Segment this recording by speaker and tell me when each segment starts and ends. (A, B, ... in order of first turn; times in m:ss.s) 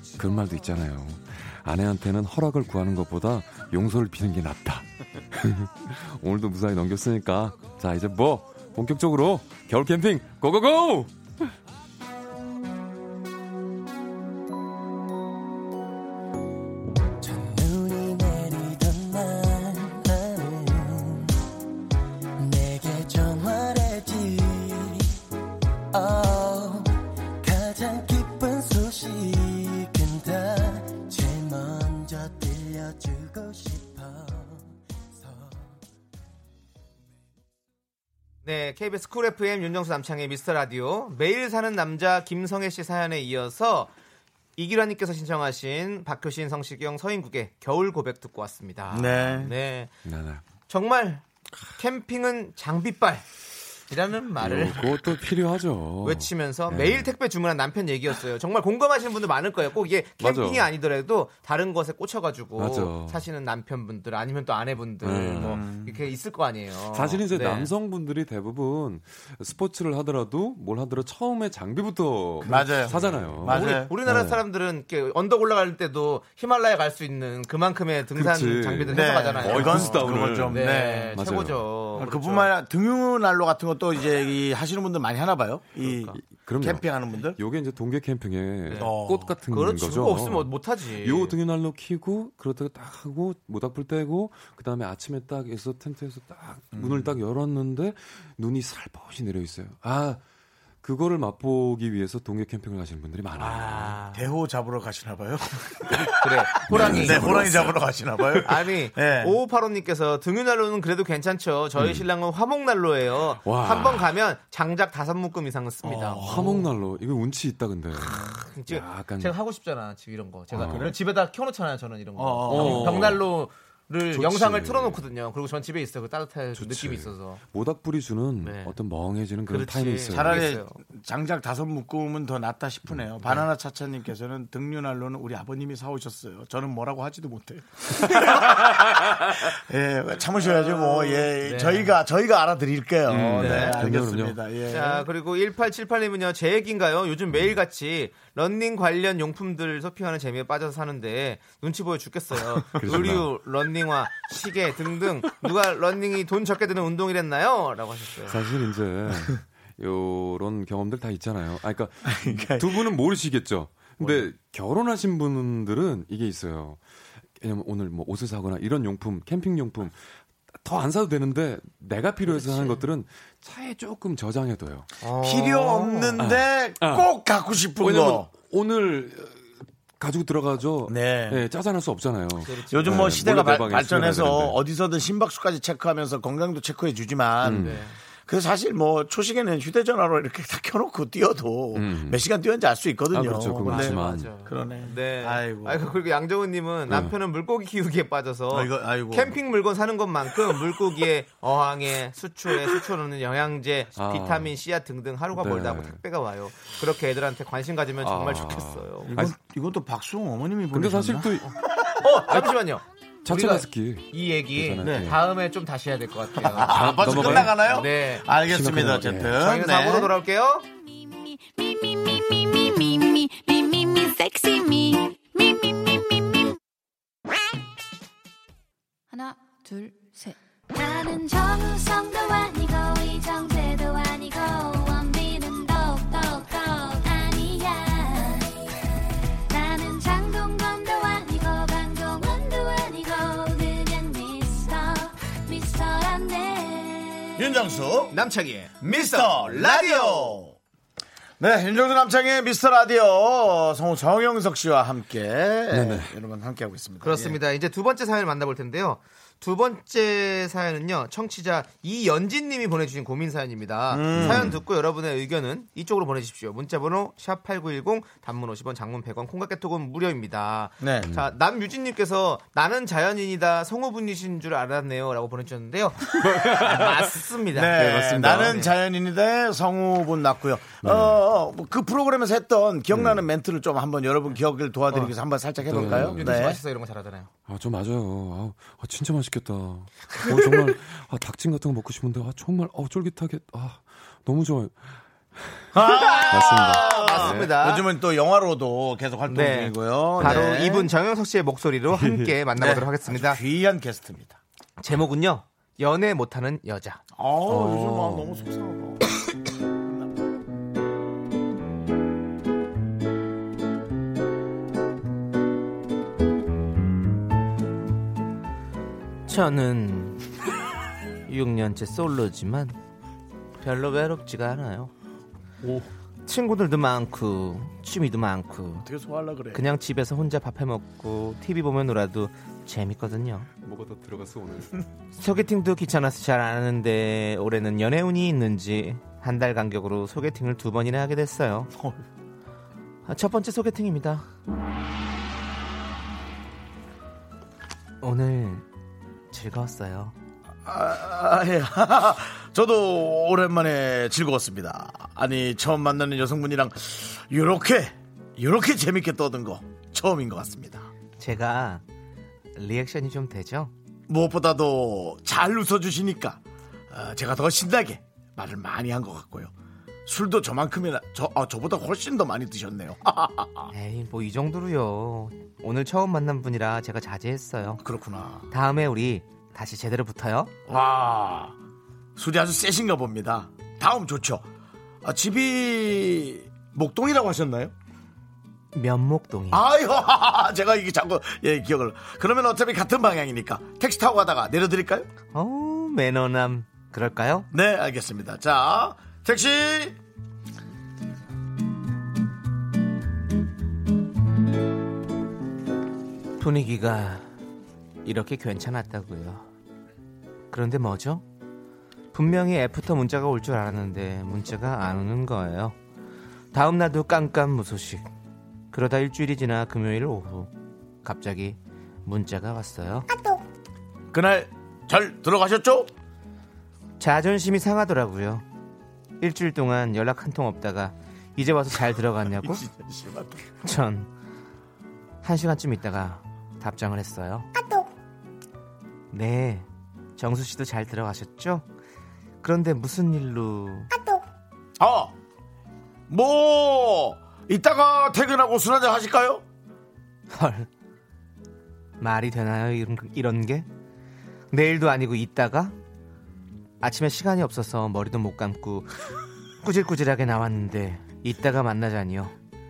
0:00.2-0:11.5 A
0:17.2-0:21.4 B
0:22.4-0:25.1 B
0:25.9-0:35.6 B
0:38.4-0:43.9 C
0:44.6-0:49.9 C
0:48.9-0:49.5 D
0:50.0-0:50.4 A
0:50.7-0:51.2 C
0:51.8-0:53.3 C
0:53.9-0:54.9 C
0:54.4-0:57.1 A
0:56.0-1:07.7 C
1:00.2-1:00.7 A
1:02.6-1:03.2 A
1:05.0-1:05.6 A
1:05.4-1:06.0 D
1:06.9-1:14.4 A
1:12.4-1:13.9 D
1:12.4-1:22.5 C
1:18.2-1:21.6 A
1:18.9-1:21.2 D
1:22.0-1:27.4 D
1:25.8-1:26.2 C
1:26.1-1:40.2 A
1:28.7-1:29.0 C
1:28.8-1:29.4 D
1:29.5-1:31.4 C
1:36.7-1:37.2 D
1:40.8-1:44.0 A
1:43.4-1:44.2 C
1:44.1-1:49.4 D
1:46.2-1:47.5 C
1:46.7-1:48.4 A
1:48.4-1:56.5 C
1:51.8-1:52.1 A
1:53.4-1:54.1 A
1:55.8-1:56.7 D
1:56.2-1:59.4 A
1:58.0-2:07.4 C
1:58.1-1:58.4 D
2:00.5-2:01.0 A
2:02.2-2:03.2 D
2:02.5-2:03.3 A
2:04.1-2:05.0 A
2:06.6-2:10.5 A
2:08.4-2:08.7 C
2:09.5-2:10.8 C
2:10.1-2:25.1 D
2:20.9-2:22.0 C
2:23.1-2:24.4 A
2:23.4-2:23.8 C
2:24.7-2:38.4 C
2:32.7-2:33.4 A
2:32.8-2:33.0 D
2:38.3-2:46.8 A
2:42.0-2:42.9 D
2:44.0-2:44.2 C
2:47.4-2:50.0 A
2:50.6-2:54.9 A
2:52.3-2:52.8 C
2:55.0-2:56.2 C
2:55.2-2:58.3 D
2:56.2-2:57.1 A
2:57.8-3:04.6 A
3:00.9-3:01.4 D
3:02.4-3:03.3 C
3:02.7-3:15.8 D
3:07.4-3:07.8 A
3:07.6-3:08.0 C
3:11.7-3:12.2 A
3:13.1-3:14.4 A
3:13.6-3:29.1 C
3:16.9-3:17.2 A
3:18.5-3:19.4 D
3:24.0-3:24.6 A
3:25.3-3:26.0 A
3:28.0-3:29.4 A
3:29.1-3:32.0 D
3:30.7-3:31.5 A
3:31.8-3:38.3 C
3:32.3-3:32.5 A
3:33.2-3:35.2 A
3:34.8-3:35.1 D
3:36.4-3:40.1 D
3:36.7-3:37.8 A
3:38.4-3:39.5 A
3:39.4-3:40.6 C
3:40.8-3:46.5 E
3:50.7-3:58.5 E
3:59.5-4:07.5 E
4:07.4-4:08.2 D
4:08.1-4:10.4 C
4:08.8-4:10.6 D
4:11.4-4:17.4 D
4:15.7-4:16.1 A
4:17.0-4:38.8 C
4:23.9-4:24.6 D
4:24.1-4:24.6 A
4:30.8-4:31.1 D
4:36.2-4:37.1 A
4:37.5-4:46.6 D
4:37.7-4:38.7 A
4:40.8-4:41.2 A
4:42.9-4:43.2 A
4:45.6-4:46.6 A
4:45.7-4:47.3 C
4:47.5-4:54.8 A
4:55.7-5:00.9 D
4:55.8-4:57.9 C
4:56.3-4:57.5 A
4:59.3-5:03.4 C
5:00.2-5:00.5 A
5:01.9-5:02.4 A
5:02.6-5:04.4 D
5:04.8-5:07.0 C
5:07.2-5:09.1 D
5:07.5-5:08.2 A
5:19.3-5:20.2 C
5:21.3-5:22.8 C
5:23.6-5:24.9 C
5:26.3-5:28.9 C
5:28.8-5:29.6 D
5:29.5-5:33.5 C
5:33.6-5:34.8 A
5:35.2-5:41.7 C
5:43.1-5:44.3 C
5:48.0-5:48.7 C
5:49.3-5:50.2 C
5:50.6-6:00.9 D
6:01.2-6:01.8 C
6:02.6-6:03.7 C
6:04.1-6:09.5 D
6:10.1-6:13.7 D
6:13.7-6:17.8 C
6:17.8-6:18.5 D
6:18.5-6:20.5 C
6:20.7-6:21.6 D
6:22.2-6:24.5 D
6:25.0-6:27.7 D
6:28.7-6:29.6 C
6:29.5-6:35.1 D
6:35.3-6:37.5 C
6:37.5-6:40.0 D
6:46.4-6:47.3 C
6:48.0-6:49.5 C
6:50.5-6:51.2 C
6:52.1-6:55.8 C
6:56.5-6:58.1 C
6:58.7-7:00.5 C
7:01.0-7:03.1 C
7:04.1-7:05.9 D
7:07.0-7:08.4 C
7:09.2-7:12.7 C
7:12.3-7:13.5 D
7:13.6-7:14.1 C
7:15.2-7:17.5 C
7:19.1-7:21.6 C
7:22.4-7:23.9 C
7:24.8-7:25.2 D
7:26.1-7:29.4 D
7:30.3-7:30.7 C
7:32.0-7:33.7 C
7:34.5-7:35.8 C
7:36.8-7:38.9 C
7:39.6-7:42.4 C